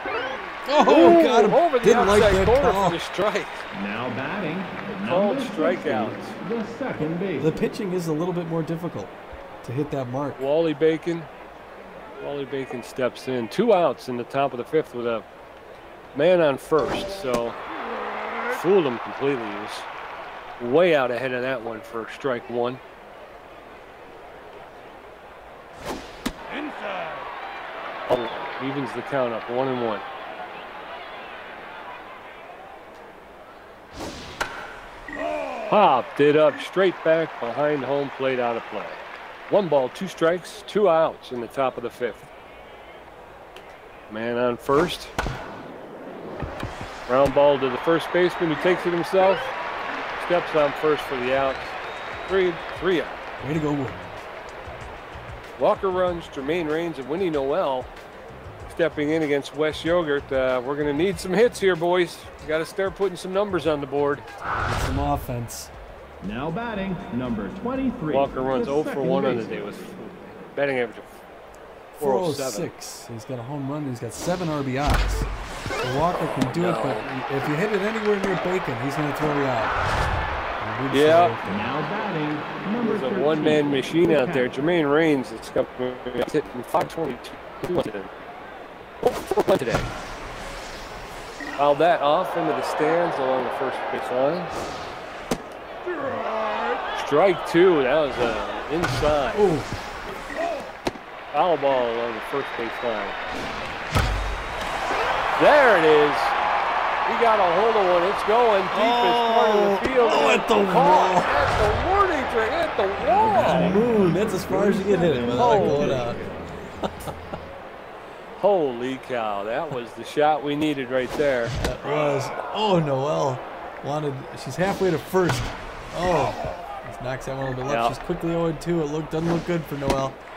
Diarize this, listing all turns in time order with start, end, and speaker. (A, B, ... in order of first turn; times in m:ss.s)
0:00.6-0:03.0 A
0:00.8-0:03.6 B
0:03.7-0:07.7 C
0:04.9-0:06.4 B
0:07.4-0:10.5 A
0:10.4-0:11.3 B
0:12.2-0:15.2 B
0:16.1-0:17.6 B
0:18.5-0:19.9 B
0:20.6-0:22.8 B
0:28.1-0:30.0 B
0:35.7-0:42.3 B
0:44.1-0:45.1 B
0:47.1-0:49.5 B
0:50.2-0:51.7 B
0:52.3-0:53.2 B
0:53.4-0:54.2 A
0:55.6-0:57.9 B
0:58.7-1:04.2 B
1:04.6-1:05.7 A
1:06.2-1:09.5 C
1:08.1-1:11.2 B
1:12.0-1:12.7 B
1:12.0-1:19.7 A
1:16.1-1:17.1 B
1:20.6-1:21.7 A
1:20.9-1:21.4 B
1:21.4-1:24.5 C
1:22.8-1:28.1 B
1:29.0-1:29.9 B
1:31.6-1:34.6 B
1:36.9-1:39.5 B
1:39.3-1:39.7 A
1:41.3-1:43.2 B
1:45.4-1:46.4 B
1:47.0-1:53.7 B
1:48.7-1:51.3 A
1:53.0-1:56.4 C
1:53.4-1:56.2 A
1:55.3-1:56.0 B
1:56.8-1:57.2 A
1:58.4-2:01.6 B
2:01.6-2:10.2 A
2:07.7-2:08.0 B